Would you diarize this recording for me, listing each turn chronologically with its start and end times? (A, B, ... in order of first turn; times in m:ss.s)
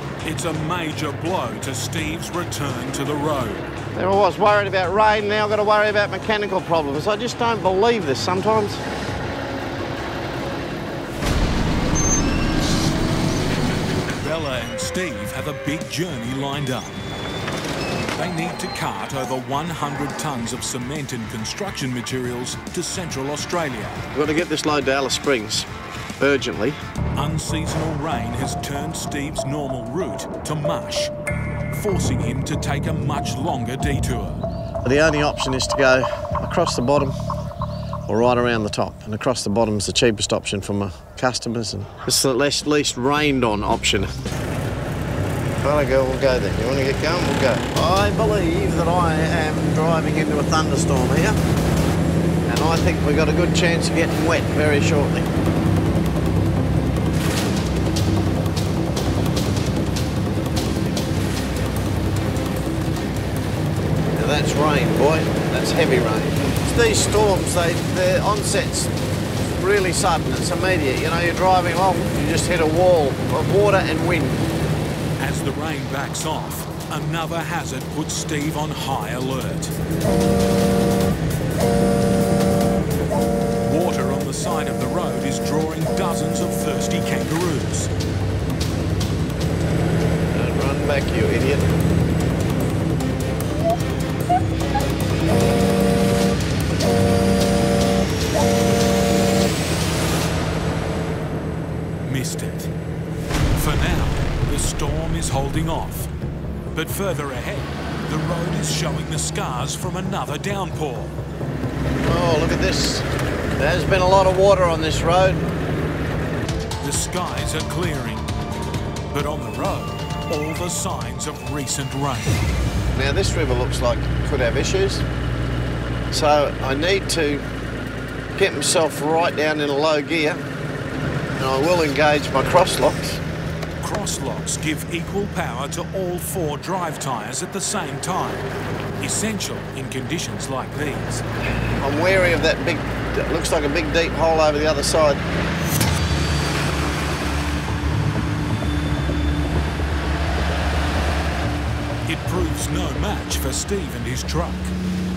0:00.2-0:03.7 A
0:04.0-0:08.8 B
0:14.1-0:17.0 A
0:18.2-0:24.0 A
0:24.1-0:25.7 B
0:26.2-0:26.8 B
0:27.2-0:31.1 A
0:31.7-0:34.4 A
0:34.8-0:37.1 B
0:38.1-0:44.1 B
0:45.6-0:51.4 B
0:52.5-0:55.3 B
1:04.2-1:08.9 B
1:09.6-1:14.4 B
1:15.2-1:19.7 A
1:23.6-1:27.9 A
1:30.3-1:31.7 B
1:42.0-1:42.7 A
1:43.5-1:46.1 A
1:46.7-1:51.2 A
1:52.0-1:53.1 B
1:53.6-1:55.4 B
1:56.8-1:58.3 A
1:59.1-2:02.4 A
2:02.9-2:05.0 B
2:06.1-2:07.4 B
2:08.4-2:10.4 B
2:11.4-2:13.2 B
2:13.8-2:18.5 A
2:19.0-2:21.2 A
2:21.8-2:25.2 B
2:32.1-2:34.7 A